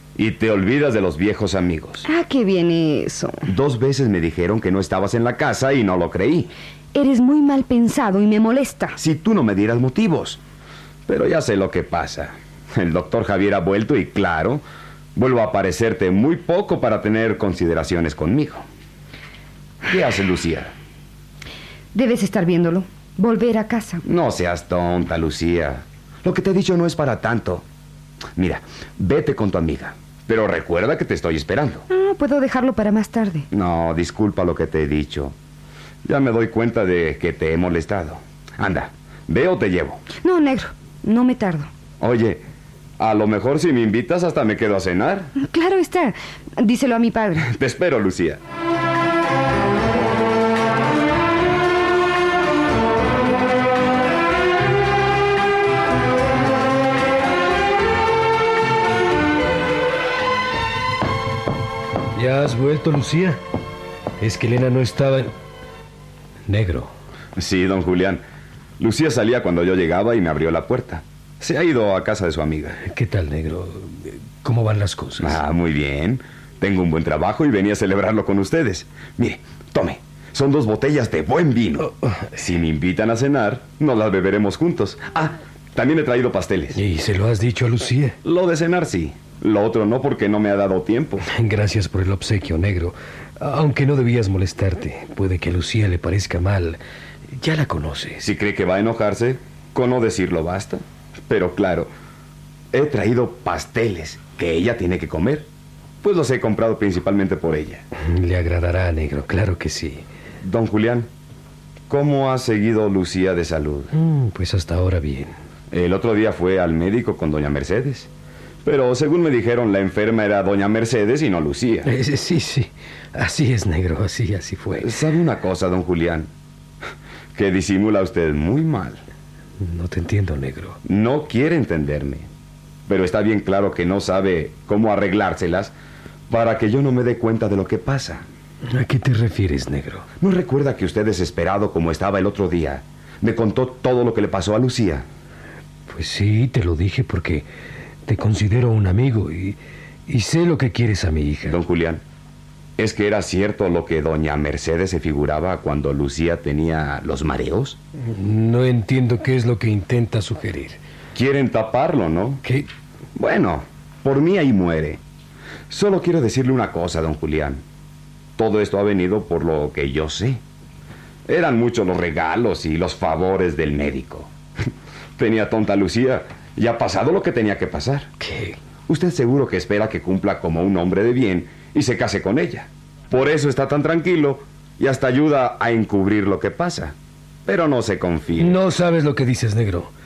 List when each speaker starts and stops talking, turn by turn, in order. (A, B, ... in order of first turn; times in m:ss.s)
0:00.2-0:02.0 A
0:02.0-0:03.4 B
0:03.5-0:06.5 A
0:06.9-0:09.0 B
0:09.0-0:10.4 A
0:11.1-0:14.6 A
0:15.1-0:18.6 A
0:19.9-0:20.7 A
0:21.9-0:24.0 B
0:24.0-0:27.6 A
0:28.4-0:31.8 A
0:31.9-0:33.5 B
0:33.5-0:35.3 A
0:36.0-0:40.0 A
0:40.2-0:41.7 B
0:42.0-0:42.4 A
0:43.0-0:45.3 A
0:45.4-0:47.5 B
0:47.4-0:48.4 A
1:02.1-1:03.4 C
1:04.2-1:05.3 C
1:06.5-1:06.9 C
1:07.4-1:08.2 A
1:08.8-1:12.8 A
1:12.8-1:15.4 C
1:15.2-1:26.8 A
1:21.8-1:22.4 C
1:26.7-1:28.2 C
1:28.2-1:31.2 A
1:31.3-1:36.8 C
1:37.3-1:38.3 C
1:38.2-1:41.9 A
1:42.7-1:45.5 A
1:46.0-1:47.8 A
1:48.0-1:50.0 C
1:50.4-1:51.1 A
1:51.9-1:53.9 A
1:53.9-1:55.3 C
1:55.7-1:58.1 A
1:58.6-2:01.9 A
2:01.8-2:04.9 C
2:04.8-2:06.3 A
2:07.3-2:09.0 A
2:09.6-2:10.8 C
2:10.8-2:12.3 A
2:12.9-2:15.7 A
2:16.3-2:18.2 A
2:18.6-2:20.0 C
2:20.2-2:25.0 A
2:25.9-2:27.5 C
2:28.0-2:31.6 C
2:31.5-2:32.0 A
2:32.8-2:37.8 A
2:38.0-2:40.8 C
2:41.1-2:42.4 A
2:43.2-2:45.0 A
2:45.7-2:47.6 A
2:48.4-2:50.4 A
2:51.3-2:54.3 A
2:55.2-2:58.1 A
2:58.2-2:58.6 C
2:58.9-3:06.9 A
3:07.4-3:08.6 A
3:08.4-3:09.9 C